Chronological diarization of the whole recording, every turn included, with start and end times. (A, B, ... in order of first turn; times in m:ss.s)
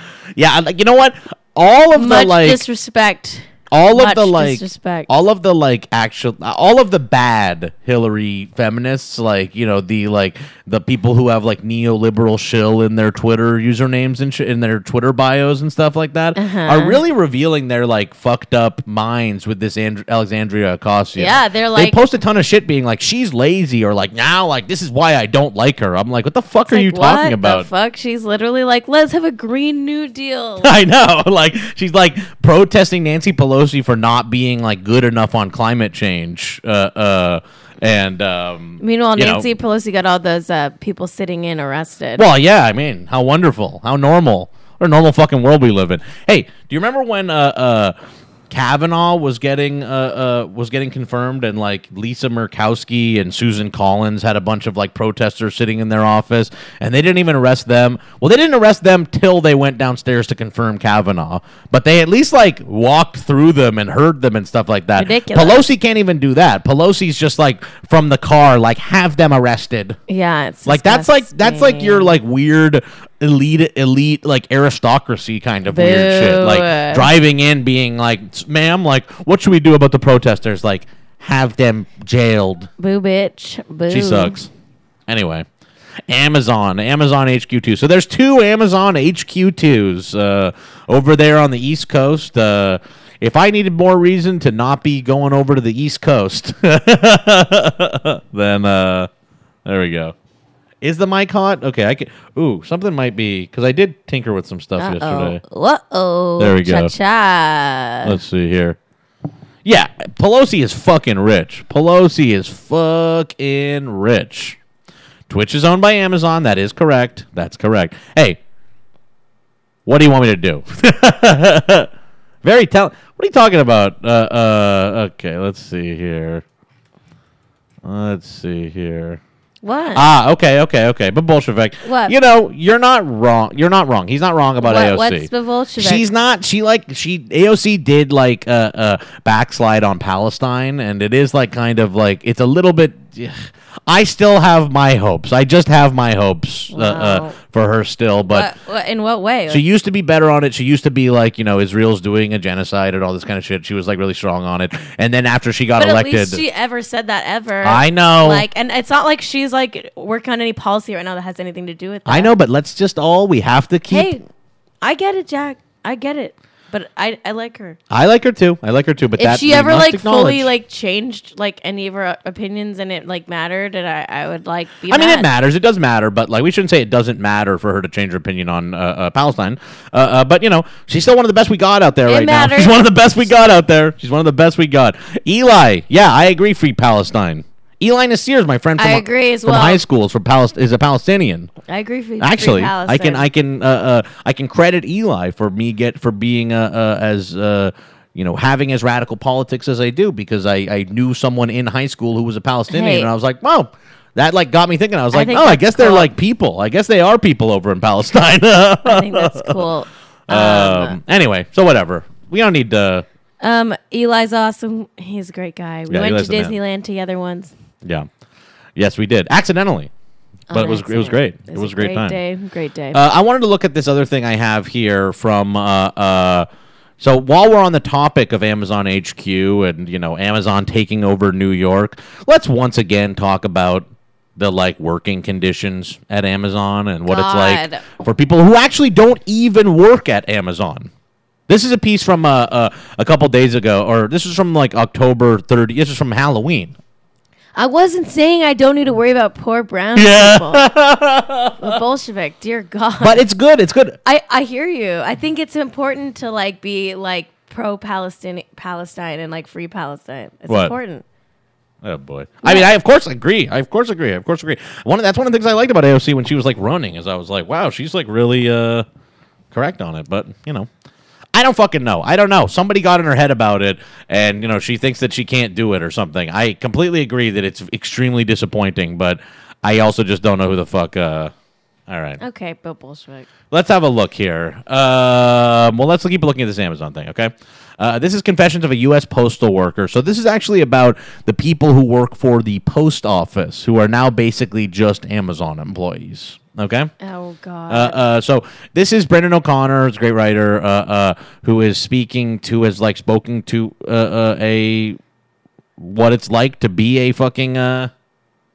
0:00.4-0:02.6 A
0:01.9-0:05.1 B
0:03.7-0:27.7 A
0:16.4-0:17.0 B
0:21.2-0:22.0 B
0:26.7-0:30.7 B
0:30.6-0:39.5 A
0:38.8-0:42.3 B
0:42.2-0:48.0 A
0:48.5-1:10.0 A
1:05.0-1:05.7 B
1:10.1-1:12.2 B
1:10.6-1:22.7 A
1:15.7-1:17.1 B
1:22.8-1:24.4 B
1:23.9-1:24.5 A
1:25.1-1:25.4 A
1:26.1-1:39.1 A
1:39.6-1:40.1 A
1:40.8-1:45.4 A
1:44.8-1:48.2 B
1:46.4-1:46.9 A
1:48.0-1:48.8 A
1:49.6-1:54.6 A
1:55.3-1:58.4 A
1:59.8-2:01.9 A
2:02.4-2:06.4 A
2:07.8-2:09.2 A
2:09.6-2:10.1 B
2:09.9-2:28.5 A
2:11.8-2:12.2 B
2:14.6-2:16.0 B
2:26.7-2:27.4 B
2:28.3-2:29.6 B
2:29.5-2:36.4 A
2:35.8-2:42.3 B
2:37.6-2:38.4 A
2:42.0-2:44.2 A
2:43.9-2:44.2 B
2:44.8-2:47.8 B
2:47.9-2:50.5 A
2:49.2-2:55.3 B
2:54.9-3:11.5 A
3:02.1-3:03.6 B
3:08.8-3:09.8 B
3:11.6-3:13.3 B
3:12.2-3:29.6 A
3:22.7-3:23.1 B
3:25.1-3:26.1 B
3:28.8-3:31.0 B
3:30.3-3:33.0 A
3:33.4-3:37.5 B
3:35.9-3:36.6 A
3:38.8-3:39.9 A
3:40.5-3:43.0 B
3:40.5-3:42.2 A
3:42.9-3:46.5 A
3:47.0-4:00.9 A
3:57.1-3:57.8 B
4:01.5-4:06.7 A
4:07.5-4:10.7 B
4:10.0-4:11.8 A
4:11.6-4:13.2 B
4:13.0-4:14.0 A
4:14.0-4:21.0 B
4:20.5-4:20.7 A
4:21.8-4:28.8 A
4:22.4-4:22.7 B
4:29.5-4:30.7 A
4:31.3-4:41.3 A
4:41.9-4:42.2 A
4:42.2-4:43.3 B
4:43.5-4:56.9 A
4:57.0-4:58.0 B
4:57.7-5:05.0 A
5:05.8-5:07.9 A